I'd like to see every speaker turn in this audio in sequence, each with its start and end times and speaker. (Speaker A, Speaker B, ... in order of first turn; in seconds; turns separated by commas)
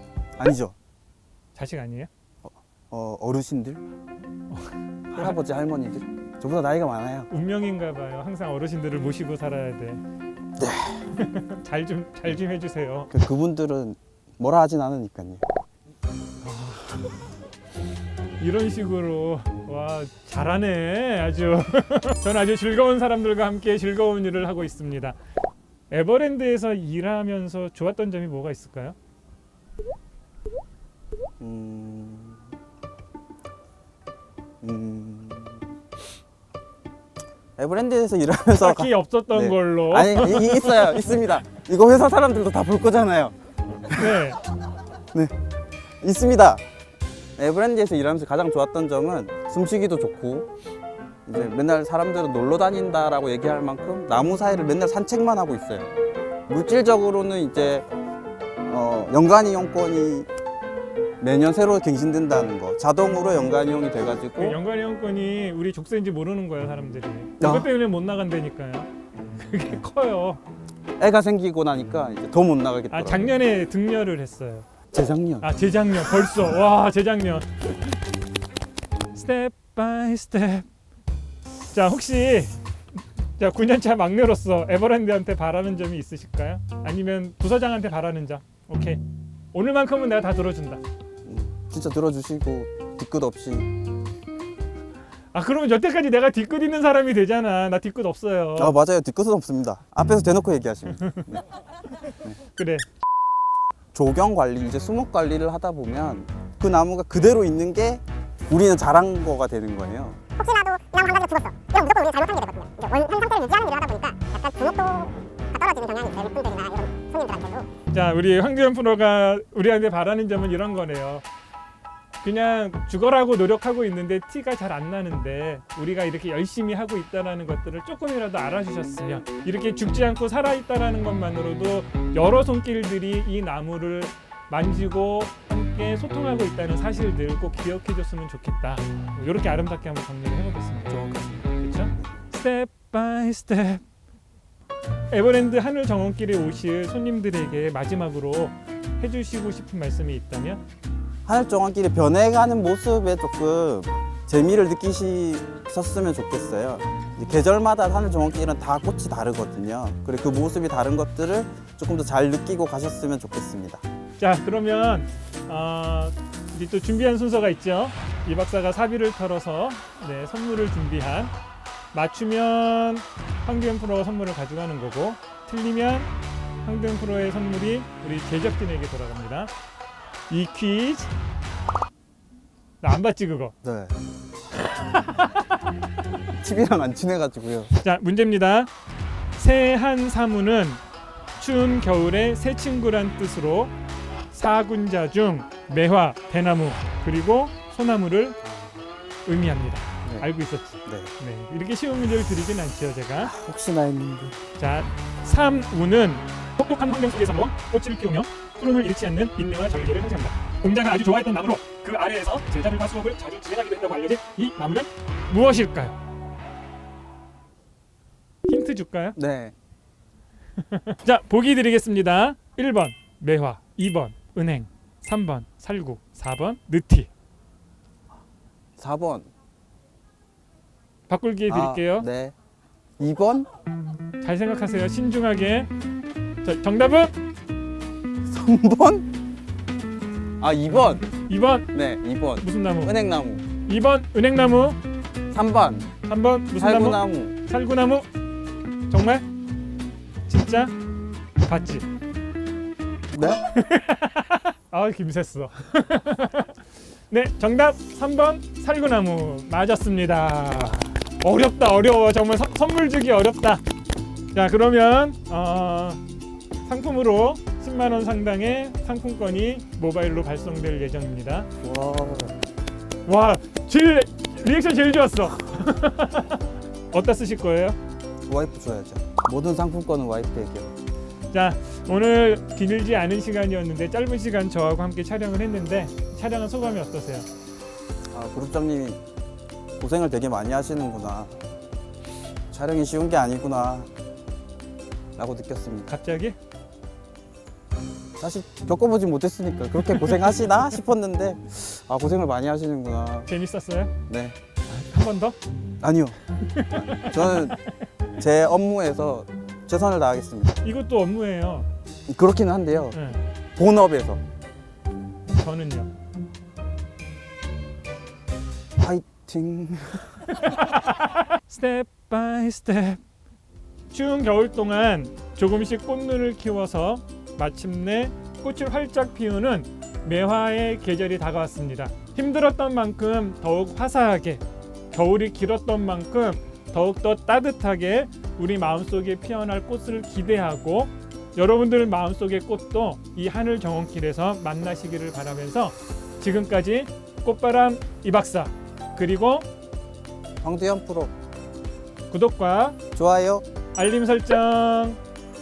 Speaker A: 0.4-0.8, Speaker B: 1.6-2.1, Speaker A: 2.4-3.9, Speaker B: 4.5-5.4, Speaker A: 5.1-7.3, Speaker B: 7.3-10.0, Speaker A: 10.6-11.1, Speaker B: 11.1-13.1, Speaker A: 13.1-15.4, Speaker B: 16.5-17.0, Speaker B: 18.4-25.2, Speaker B: 25.9-29.0, Speaker A: 31.4-32.4, Speaker A: 34.6-35.7, Speaker A: 37.6-44.3, Speaker B: 38.5-41.4, Speaker B: 43.9-44.4, Speaker A: 46.0-46.6, Speaker A: 47.4-50.5, Speaker A: 51.3-55.9, Speaker A: 56.5-57.9, Speaker A: 58.7-60.3, Speaker A: 61.2-64.6, Speaker B: 64.4-70.4, Speaker A: 67.4-67.7, Speaker A: 71.0-73.4, Speaker B: 72.9-74.7, Speaker A: 74.9-75.5, Speaker B: 75.4-77.9, Speaker B: 79.1-80.7, Speaker B: 81.7-82.6, Speaker B: 83.4-89.0, Speaker B: 89.5-90.8, Speaker A: 91.2-93.7, Speaker B: 95.3-98.8, Speaker A: 98.6-101.4, Speaker B: 102.5-102.9, Speaker A: 103.9-110.2, Speaker C: 110.4-117.7, Speaker B: 117.9-121.2, Speaker B: 122.2-143.8, Speaker A: 140.9-142.1, Speaker B: 145.1-150.6, Speaker A: 151.3-163.8, Speaker B: 164.2-171.3, Speaker B: 171.9-176.1, Speaker B: 176.6-179.5, Speaker B: 180.3-181.1, Speaker B: 182.8-183.6, Speaker A: 183.6-183.9, Speaker B: 184.8-185.4, Speaker A: 186.3-187.7, Speaker B: 187.8-188.7, Speaker B: 189.4-190.8, Speaker B: 191.4-193.7, Speaker B: 194.3-198.4, Speaker A: 198.4-198.8, Speaker B: 199.3-203.3, Speaker A: 200.0-200.3, Speaker A: 200.8-201.1, Speaker A: 203.2-204.4, Speaker B: 204.6-216.0, Speaker B: 218.4-219.2, Speaker A: 219.2-219.6, Speaker B: 220.6-227.1, Speaker A: 228.8-229.3, Speaker B: 231.1-232.1, Speaker A: 231.5-232.3, Speaker A: 233.0-233.5, Speaker B: 234.2-235.7, Speaker B: 236.4-237.2, Speaker A: 238.3-239.1, Speaker A: 240.4-241.1, Speaker B: 241.3-241.7, Speaker A: 241.7-243.5, Speaker B: 242.4-243.0, Speaker B: 243.6-244.8, Speaker A: 245.3-245.9, Speaker B: 246.1-248.1, Speaker A: 246.6-247.4, Speaker B: 248.9-249.2, Speaker B: 250.3-250.7, Speaker B: 251.5-251.9, Speaker A: 253.1-253.4, Speaker B: 253.5-256.6, Speaker B: 257.1-263.6, Speaker B: 264.3-266.0, Speaker B: 266.6-271.5, Speaker A: 271.6-272.4, Speaker B: 273.1-277.8, Speaker A: 278.3-280.7, Speaker B: 281.3-287.3, Speaker A: 288.1-289.0, Speaker A: 289.8-291.4, Speaker A: 292.5-293.9, Speaker A: 295.2-295.9, Speaker B: 295.9-296.4, Speaker A: 298.2-303.3, Speaker B: 303.3-303.9, Speaker A: 304.1-304.4, Speaker B: 304.7-305.4, Speaker A: 305.8-306.2, Speaker B: 306.3-307.7, Speaker A: 306.7-307.6, Speaker A: 308.2-310.6, Speaker B: 310.6-311.7, Speaker A: 312.1-313.0, Speaker B: 312.9-313.2, Speaker A: 313.6-314.2, Speaker B: 315.3-315.9, Speaker A: 318.8-320.5, Speaker B: 320.3-323.0, Speaker B: 323.9-349.5, Speaker A: 350.4-351.1, Speaker B: 352.1-352.8, Speaker A: 352.9-353.4, Speaker B: 353.8-355.0